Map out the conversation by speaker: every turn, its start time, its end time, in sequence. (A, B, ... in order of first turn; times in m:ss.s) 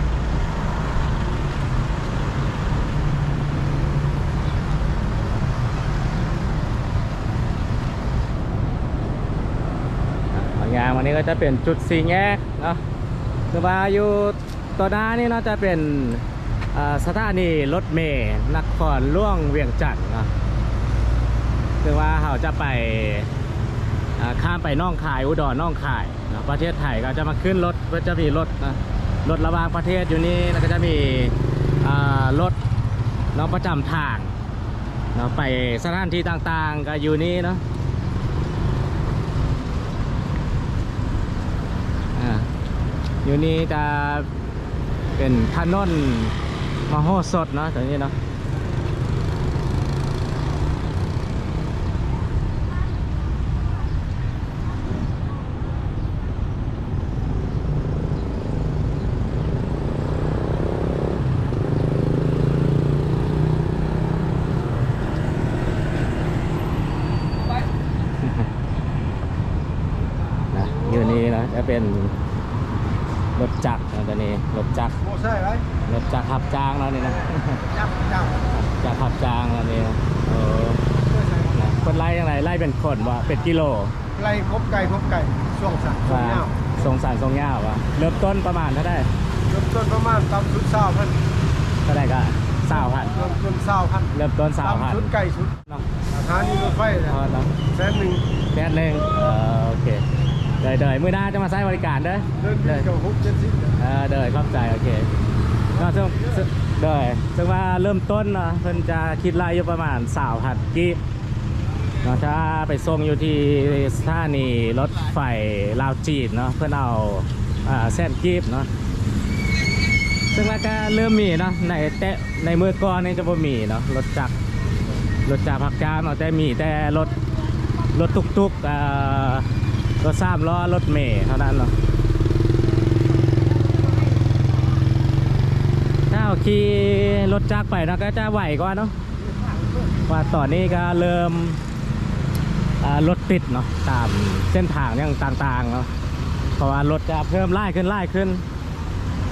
0:10.3-0:12.8 A
0:13.5-0:20.3 A
0:21.8-0:23.3 A
0:24.2-0:32.6 A
0:33.3-0:34.3 A
0:35.1-0:37.6 A
0:42.2-0:42.5 A
0:43.2-0:44.3 A
0:45.2-0:46.4 A
0:46.9-0:48.2 A
1:08.2-1:08.5 A
1:10.5-1:12.2 A
1:13.4-1:15.0 A
1:15.0-1:15.7 B
1:15.8-1:17.7 A
1:17.7-1:18.4 B
1:18.5-1:20.9 A
1:21.1-1:21.6 B
1:21.5-1:24.0 A
1:24.2-1:26.6 B
1:26.1-1:29.1 A
1:29.5-1:31.2 B
1:31.9-1:33.2 A
1:32.9-1:38.3 B
1:34.1-1:35.1 A
1:37.1-1:37.6 A
1:38.5-1:40.1 A
1:40.6-1:42.9 A
1:42.4-1:43.8 B
1:43.8-1:45.1 A
1:45.7-1:51.0 A
1:46.1-1:46.4 B
1:52.0-1:58.7 A
2:00.3-2:04.4 A
2:05.3-2:07.2 A
2:07.9-2:09.5 A
2:10.0-2:11.7 A
2:16.1-2:19.0 A
2:20.1-2:21.6 A
2:22.8-2:25.9 A
2:26.6-2:28.4 A